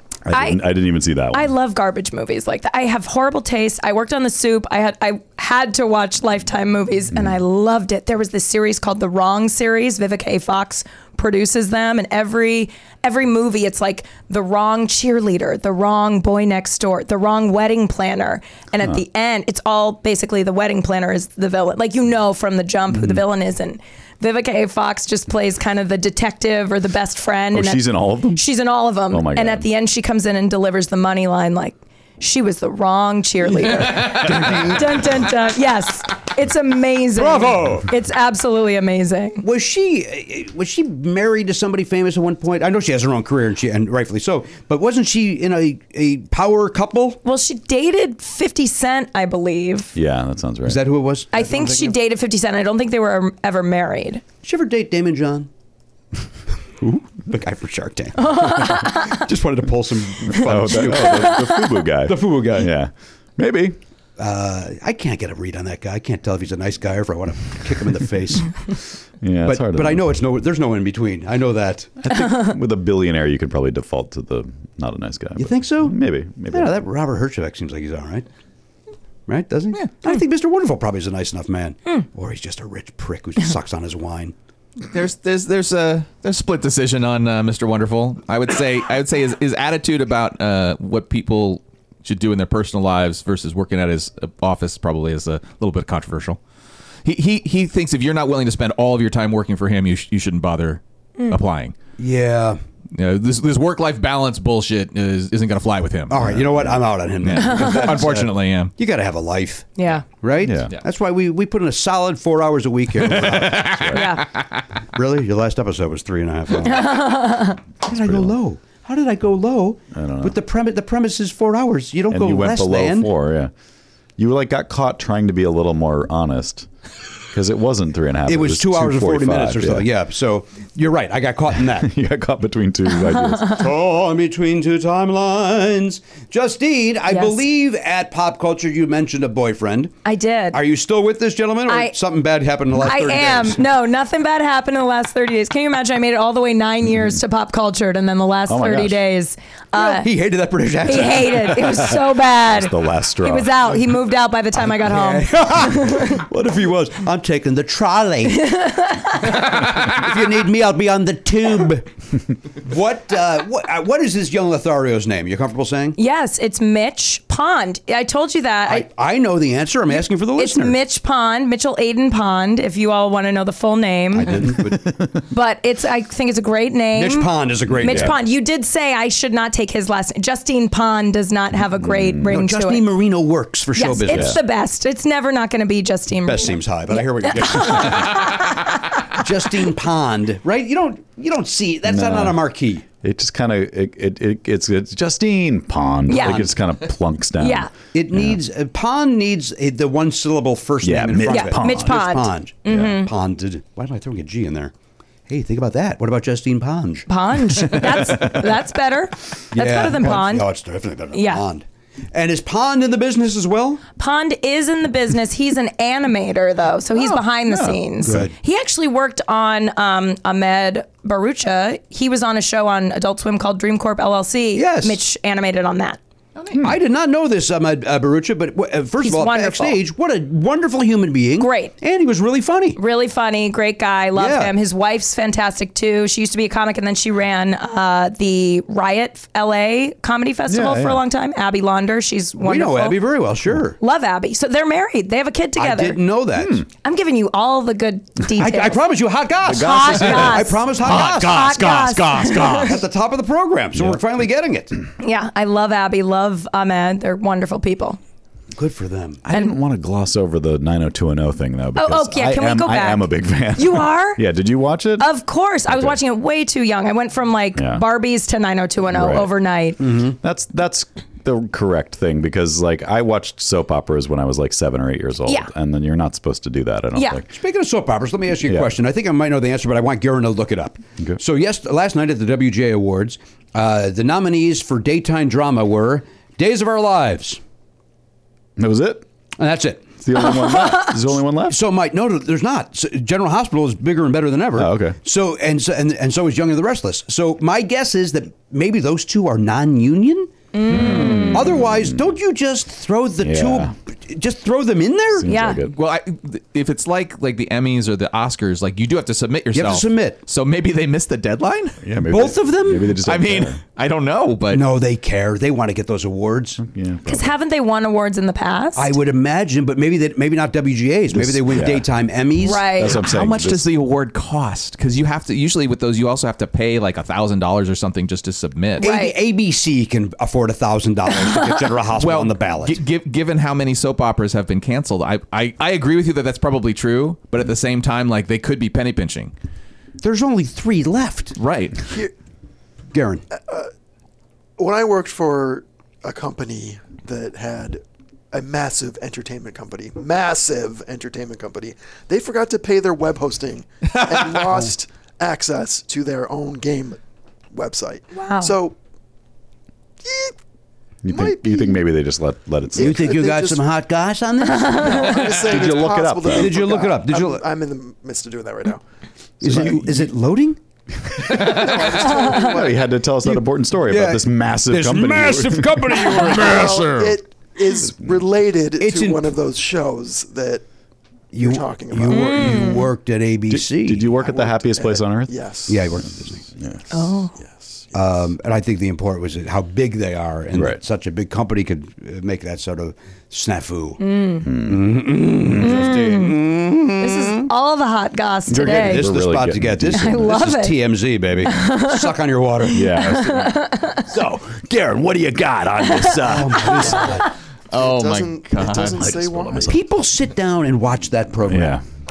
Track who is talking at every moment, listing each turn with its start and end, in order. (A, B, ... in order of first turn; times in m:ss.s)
0:00.3-0:01.5 A
0:00.3-0:00.6 B
0:01.3-0:39.4 B
0:22.9-0:23.2 A
0:27.5-0:28.4 A
0:29.1-0:29.7 A
0:33.8-0:35.1 C
0:37.2-0:37.9 C
0:39.4-0:47.2 C
0:47.2-0:49.9 B
0:49.9-0:50.8 A
0:50.6-0:52.0 C
0:51.3-0:54.2 B
0:54.4-0:55.5 C
0:56.8-1:02.7 C
0:58.2-0:59.2 B
1:00.3-1:03.8 A
1:01.0-1:01.8 B
1:04.2-1:08.5 C
1:09.2-1:10.0 A
1:09.4-1:11.9 C
1:12.0-1:16.8 A
1:15.4-1:16.0 C
1:16.5-1:18.2 C
1:19.3-1:24.3 C
1:24.9-1:36.4 D
1:37.0-1:41.7 D
1:42.0-1:42.6 C
1:42.9-1:46.2 D
1:46.1-1:54.1 C
1:46.2-1:46.8 A
1:47.2-1:48.7 D
1:49.8-1:50.0 B
1:50.4-1:50.7 A
1:53.0-1:54.5 D
1:53.6-1:54.1 A
1:53.9-1:54.3 B
1:54.9-1:57.1 C
1:56.6-1:57.6 B
1:57.8-2:03.1 C
1:57.9-1:58.3 A
1:59.9-2:00.4 A
2:02.1-2:03.5 A
2:04.2-2:06.7 A
2:07.3-2:09.9 A
2:08.3-2:11.9 C
2:11.6-2:13.6 A
2:13.1-2:13.4 B
2:13.5-2:19.9 C
2:17.1-2:17.4 B
2:20.0-2:20.6 B
2:20.5-2:23.6 C
2:21.7-2:21.9 B
2:22.8-2:30.1 B
2:28.5-2:29.0 A
2:29.7-2:31.7 C
2:30.8-2:36.2 B
2:31.5-2:33.7 A
2:34.7-2:38.5 C
2:38.3-2:39.3 B
2:39.2-2:41.9 C
2:42.5-2:46.0 C
2:46.0-2:48.9 B
2:48.6-2:50.8 C
2:49.9-2:54.5 B
2:54.1-2:54.8 C
2:54.3-2:55.2 A
2:55.3-3:02.9 B
2:56.9-2:58.2 C
2:57.7-2:58.2 A
3:01.8-3:02.3 A
3:02.3-3:04.4 C
3:03.7-3:09.2 B
3:04.0-3:04.4 A
3:06.2-3:08.4 C
3:09.1-3:12.8 C
3:11.8-3:12.4 A
3:13.0-3:18.4 A
3:16.1-3:16.5 B
3:16.1-3:16.5 C
3:17.4-3:17.7 B
3:17.9-3:24.7 C
3:20.8-3:22.0 A
3:21.2-3:23.1 B
3:22.6-3:23.0 A
3:25.3-3:27.1 C
3:27.1-3:30.5 B
3:27.8-3:28.4 A
3:29.5-3:33.8 C
3:31.1-3:31.4 B
3:34.0-3:46.0 B
3:37.0-3:38.3 A
3:38.0-3:38.3 C
3:44.5-3:45.0 C
3:46.6-3:52.8 C
3:49.0-3:49.8 B
3:51.4-3:51.7 B
3:52.8-4:03.0 B
3:54.1-3:54.5 C
4:00.5-4:01.0 A
4:02.4-4:03.8 C
4:03.8-4:06.0 B
4:05.6-4:06.6 C
4:06.7-4:08.8 B
4:08.4-4:11.6 C
4:09.4-4:10.5 A
4:09.5-4:10.6 B
4:10.7-4:12.8 D
4:11.2-4:12.7 B
4:12.4-4:14.8 C
4:15.0-4:18.0 B
4:18.5-4:19.2 C
4:19.2-4:25.1 A
4:21.7-4:24.2 B
4:25.0-4:29.8 B
4:25.7-4:26.0 A
4:27.6-4:27.8 A
4:28.9-4:29.3 A
4:29.8-4:30.2 C
4:30.2-4:37.2 A
4:36.9-4:37.2 B
4:37.3-4:47.4 C
4:48.6-4:49.0 A
4:49.4-4:49.9 C
4:50.0-4:51.6 A
4:50.1-4:51.0 B
4:51.5-5:00.3 C
4:54.6-4:55.0 A
5:00.5-5:01.5 B
5:00.6-5:02.0 A
5:00.9-5:05.3 C
5:03.2-5:03.7 A
5:05.1-5:05.7 A
5:05.2-5:05.7 B
5:05.6-5:11.8 D
5:09.5-5:10.2 C
5:11.8-5:13.6 A
5:12.1-5:13.0 C
5:13.0-5:14.6 D
5:14.5-5:16.6 C
5:16.6-5:17.3 A
5:17.0-5:18.9 B
5:18.7-5:22.7 C
5:21.1-5:21.9 A
5:22.4-5:23.0 B
5:22.7-5:23.6 A
5:22.8-5:28.8 D
5:28.8-5:29.2 B
5:28.8-5:32.8 C
5:31.2-5:31.5 B
5:32.0-5:39.3 D
5:40.0-5:41.4 C
5:41.4-5:41.9 D
5:42.9-5:43.2 C
5:43.3-5:43.7 E
5:44.6-5:57.0 E
5:57.5-5:58.8 E
5:58.1-5:58.6 B
6:00.0-6:00.4 E
6:01.0-6:03.1 A
6:01.0-6:01.8 E
6:02.7-6:03.6 E
6:02.8-6:05.2 C
6:04.7-6:08.8 E
6:05.2-6:06.6 A
6:06.3-6:07.4 C
6:09.4-6:10.6 C
6:09.4-6:09.8 A
6:11.2-6:12.8 E
6:11.3-6:11.8 C
6:11.3-6:11.6 A
6:12.2-6:16.2 A
6:13.2-6:17.1 C
6:16.1-6:20.6 E
6:16.3-6:16.8 D
6:18.8-6:19.2 C
6:21.3-6:24.1 C
6:21.4-6:22.7 E
6:22.1-6:22.9 B
6:23.5-6:25.3 A
6:24.2-6:26.1 E
6:25.7-6:26.4 C
6:26.9-6:27.3 B
6:27.4-6:27.8 E
6:27.9-6:37.5 C
6:34.0-6:34.5 B
6:34.4-6:36.0 A
6:35.6-6:36.4 B
6:37.0-6:39.1 B
6:38.5-6:40.5 A
6:38.6-6:42.9 C
6:39.9-6:40.8 B
6:41.4-6:42.1 B
6:42.7-6:47.2 A
6:42.7-6:44.0 B
6:45.9-6:46.2 B
6:46.2-6:47.3 C
6:46.8-6:47.1 E
6:47.7-6:49.1 D
6:47.7-6:49.8 E
6:48.5-6:49.8 A
6:49.7-6:51.8 C
6:51.5-6:51.8 A